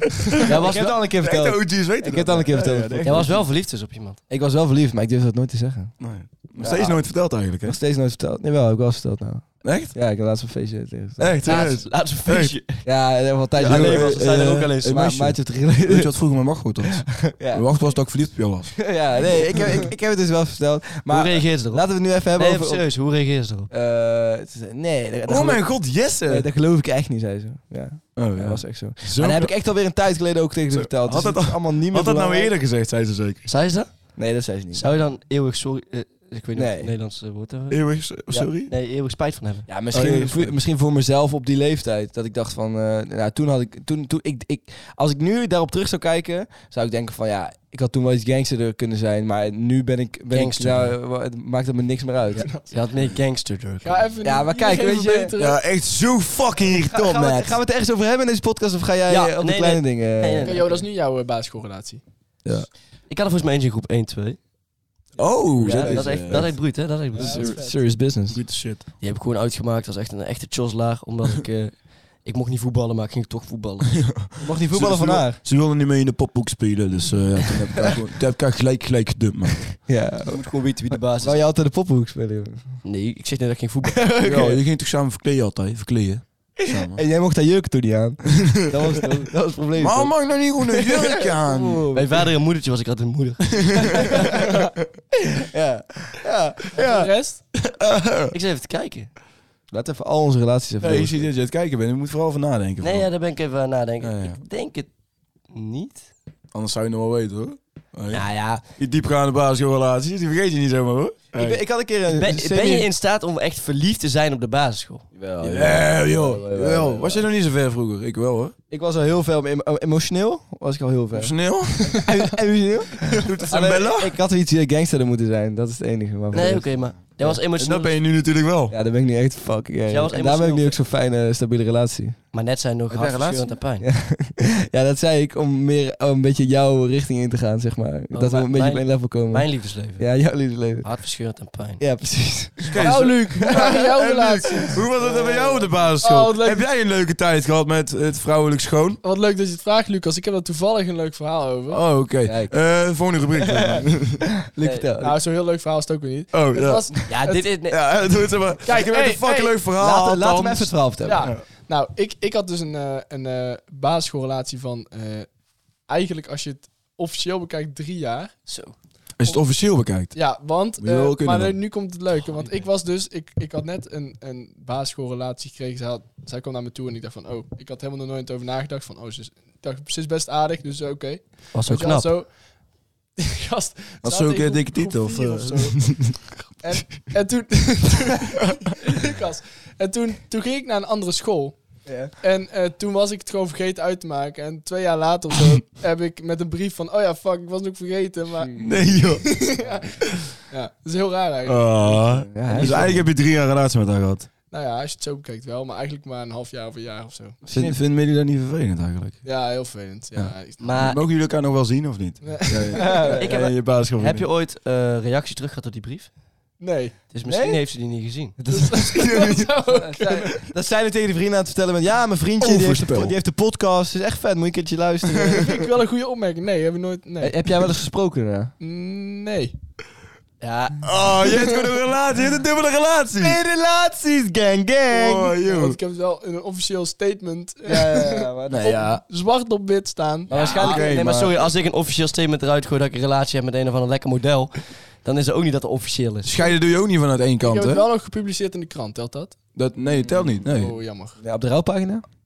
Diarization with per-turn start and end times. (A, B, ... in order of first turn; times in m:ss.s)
0:00.3-0:00.5 A
0:00.5-0:01.0 B
0:00.5-0:03.3 C
0:01.2-0:03.4 A
0:03.0-0:04.2 B
0:04.3-0:06.0 C
0:06.0-0:07.8 A
0:06.6-0:07.0 C
0:07.5-0:11.4 C
0:09.6-0:10.0 A
0:11.2-0:12.5 A
0:11.4-0:12.8 B
0:12.8-0:16.1 C
0:13.6-0:15.3 B
0:13.6-0:15.1 A
0:15.8-0:19.6 A
0:16.8-0:17.6 C
0:18.8-0:22.8 C
0:21.1-0:23.7 B
0:23.7-0:32.5 C
0:25.3-0:26.5 A
0:28.1-0:29.5 A
0:30.7-0:33.4 A
0:33.4-0:34.2 B
0:34.2-0:34.9 C
0:34.7-0:37.8 B
0:36.5-0:36.9 C
0:37.7-0:38.7 A
0:38.7-0:39.7 B
0:39.7-0:52.5 C
0:39.9-0:40.5 A
0:50.3-0:51.0 B
0:52.4-0:52.8 D
0:52.7-0:54.1 B
0:53.8-0:55.6 D
0:54.2-0:55.3 C
0:55.4-0:57.6 A
0:56.6-1:00.6 C
0:59.1-1:00.8 B
1:00.4-1:02.0 D
1:03.1-1:04.4 B
1:05.2-1:07.7 A
1:05.6-1:07.6 B
1:05.6-1:06.5 C
1:07.2-1:08.4 C
1:07.2-1:07.6 D
1:08.3-1:08.8 A
1:09.0-1:14.0 B
1:13.9-1:19.8 A
1:14.4-1:15.4 C
1:19.9-1:22.7 C
1:20.3-1:21.4 B
1:22.8-1:24.5 B
1:24.1-1:24.6 C
1:24.2-1:27.0 A
1:26.8-1:32.2 C
1:29.8-1:31.8 A
1:31.9-1:34.1 B
1:33.6-1:34.4 A
1:35.3-1:37.1 C
1:36.7-1:37.4 D
1:37.6-1:38.3 A
1:38.3-1:39.1 B
1:39.7-1:41.3 C
1:40.8-1:43.1 A
1:42.8-1:44.9 B
1:44.0-1:44.4 A
1:45.5-1:46.0 B
1:46.5-1:51.6 A
1:48.1-1:48.6 B
1:51.3-1:52.9 C
1:52.1-1:55.1 B
1:55.1-1:57.3 C
1:55.4-1:58.5 A
1:58.7-2:07.4 C
2:01.1-2:02.0 A
2:03.0-2:04.1 A
2:06.3-2:08.0 B
2:07.5-2:08.8 A
2:08.7-2:12.2 C
2:09.9-2:10.8 B
2:12.3-2:13.9 B
2:12.9-2:13.5 A
2:13.8-2:20.9 C
2:18.1-2:20.1 B
2:20.8-2:21.8 B
2:21.8-2:23.7 C
2:22.7-2:29.0 A
2:22.8-2:26.6 D
2:29.0-2:31.9 D
2:31.7-2:34.3 A
2:32.2-2:32.6 C
2:33.3-2:33.6 C
2:34.4-2:35.2 C
2:35.0-2:37.5 D
2:36.3-2:41.4 A
2:37.0-2:37.8 B
2:38.6-2:39.6 D
2:39.8-2:41.3 C
2:41.0-2:45.3 D
2:45.9-2:48.3 D
2:48.5-2:48.8 B
2:49.2-2:50.2 A
2:50.1-3:02.3 D
2:50.8-2:51.6 A
3:01.5-3:02.1 B
3:03.2-3:05.8 D
3:04.0-3:06.3 A
3:06.6-3:19.9 D
3:11.8-3:12.1 C
3:18.4-3:18.7 C
3:18.6-3:19.3 A
3:20.5-3:22.7 D
3:21.4-3:24.3 A
3:22.2-3:23.0 C
3:24.5-3:27.4 D
3:27.4-3:29.2 A
3:27.5-3:27.8 C
3:29.2-3:30.8 D
3:30.1-3:34.2 A
3:30.6-3:31.0 B
3:32.2-3:33.2 D
3:32.8-3:33.3 C
3:33.2-3:36.1 B
3:36.6-3:37.0 D
3:37.1-3:38.4 B
3:37.2-3:37.6 C
3:38.4-3:45.5 C
3:38.5-3:40.3 D
3:38.9-3:39.5 A
3:42.4-3:43.1 A
3:45.3-3:47.3 D
3:47.2-3:48.5 C
3:48.6-3:49.5 D
3:50.4-3:50.8 B
3:50.8-3:53.4 A
3:53.2-3:55.3 C
3:54.9-3:55.8 A
3:55.4-4:00.8 D
3:57.7-3:58.8 C
3:58.5-3:59.0 A
4:00.3-4:00.9 C
4:00.3-4:06.4 B
4:00.4-4:01.4 A
4:06.2-4:07.9 A
4:07.4-4:09.4 D
4:09.5-4:10.8 A
4:09.8-4:10.4 C
4:10.4-4:11.2 D
4:11.2-4:12.0 C